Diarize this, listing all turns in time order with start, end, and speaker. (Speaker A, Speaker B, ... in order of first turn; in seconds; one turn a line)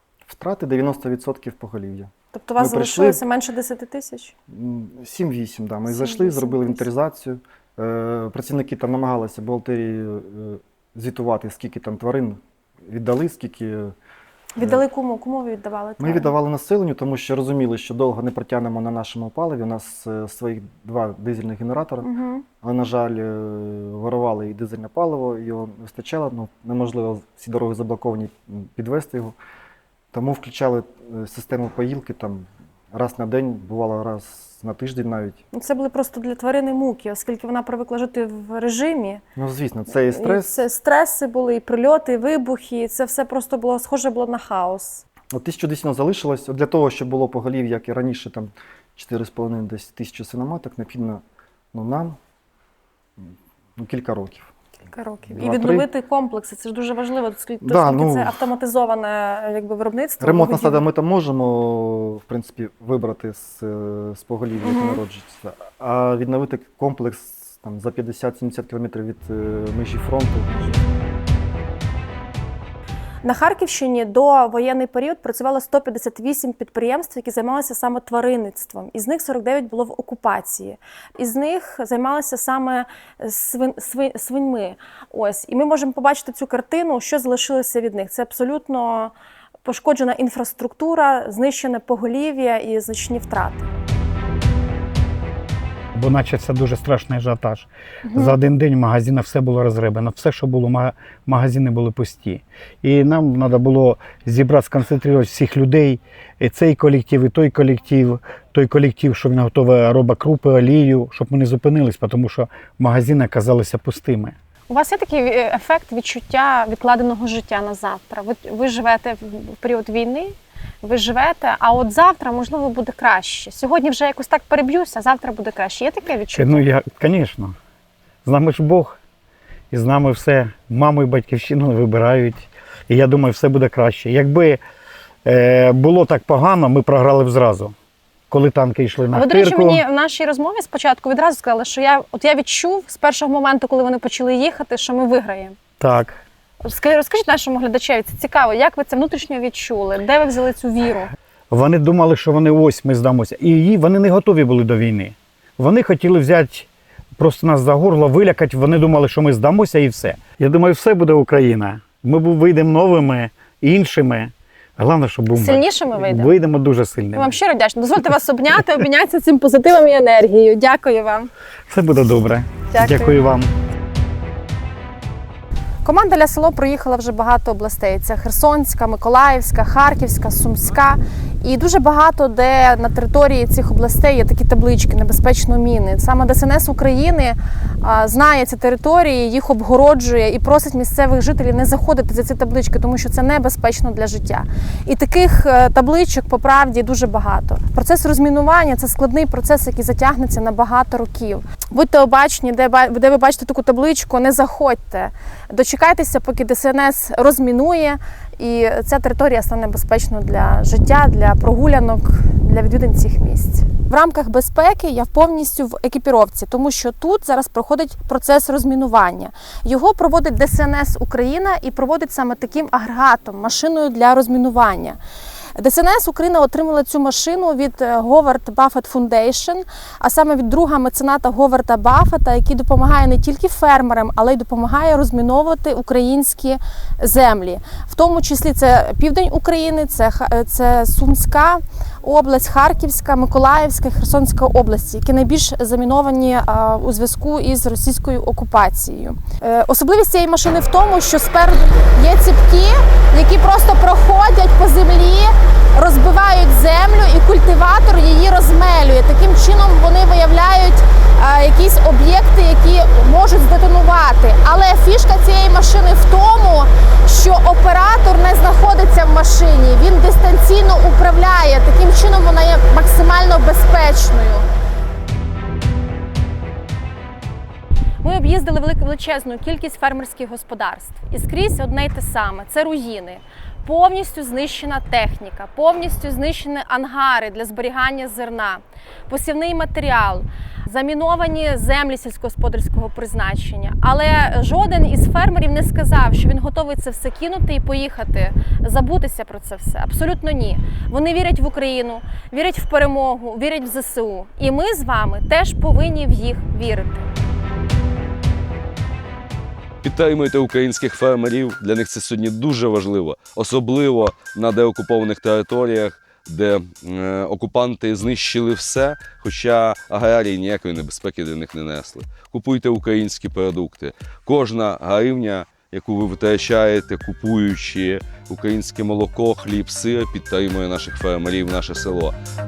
Speaker A: 0.3-3.2
Speaker B: 2.3-4.3
Speaker A: 4.5-13.9
Speaker B: 5.9-6.8
Speaker B: 14.6-16.3
Speaker A: 14.6-14.8
Speaker A: 16.0-22.1
Speaker B: 22.0-22.4
Speaker A: 22.6-29.4
Speaker A: 30.1-35.4
Speaker B: 35.5-39.2
Speaker A: 39.4-40.6
Speaker B: 40.1-45.0
Speaker A: 45.3-51.2
Speaker A: 51.7-52.2
Speaker A: 53.2-54.5
Speaker B: 54.9-60.8
Speaker A: 55.3-55.9
Speaker A: 57.6-58.3
Speaker A: 60.2-70.5
Speaker B: 64.6-65.0
Speaker B: 70.5-70.8
Speaker B: 73.2-93.7
Speaker C: 95.9-114.3
Speaker B: 98.0-98.4
Speaker B: 114.7-126.7
Speaker C: 126.3-127.5
Speaker C: 128.2-129.0
Speaker C: 129.7-134.6
Speaker C: 135.2-137.7
Speaker C: 138.3-139.8
Speaker B: 139.1-145.6
Speaker C: 145.8-146.2
Speaker B: 146.6-151.1
Speaker C: 151.5-167.3
Speaker B: 165.3-166.3
Speaker B: 167.1-171.3
Speaker C: 171.7-173.5
Speaker B: 172.7-173.3
Speaker B: 175.8-225.0
Speaker B: 225.6-274.4
Speaker B: 278.0-307.1
Speaker D: 309.8-332.2